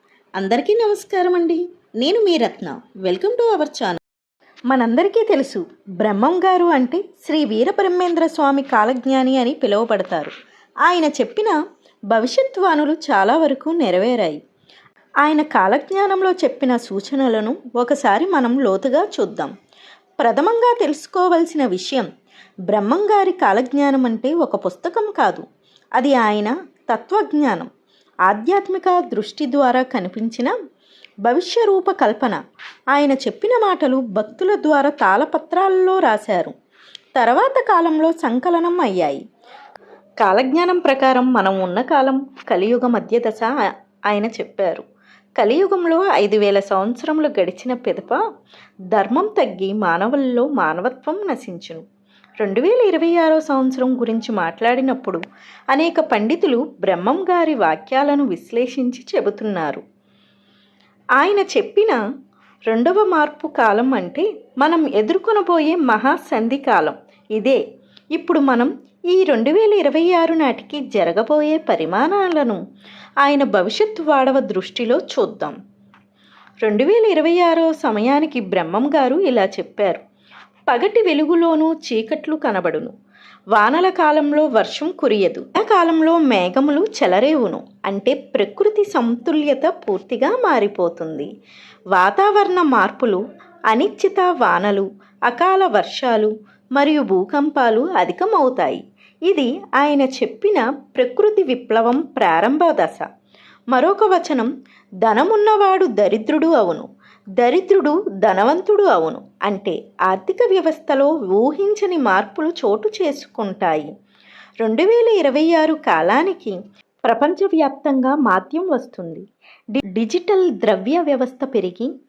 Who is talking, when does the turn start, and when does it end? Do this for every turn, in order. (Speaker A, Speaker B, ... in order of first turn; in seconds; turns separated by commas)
Speaker A: 0.4-4.0, Speaker A: 4.7-10.3, Speaker A: 10.8-11.6, Speaker A: 12.1-14.4, Speaker A: 15.2-19.5, Speaker A: 20.2-22.1, Speaker A: 22.7-25.5, Speaker A: 26.0-27.7, Speaker A: 28.3-30.5, Speaker A: 31.2-32.4, Speaker A: 32.9-36.5, Speaker A: 37.2-39.2, Speaker A: 40.2-43.5, Speaker A: 44.1-44.9, Speaker A: 45.4-48.2, Speaker A: 48.9-51.9, Speaker A: 52.4-59.8, Speaker A: 61.2-62.0, Speaker A: 62.7-67.6, Speaker A: 68.2-72.6, Speaker A: 73.2-75.6, Speaker A: 76.6-80.0, Speaker A: 80.7-82.9, Speaker A: 83.5-91.3, Speaker A: 91.9-103.1, Speaker A: 103.7-104.5, Speaker A: 105.0-113.9, Speaker A: 114.6-121.9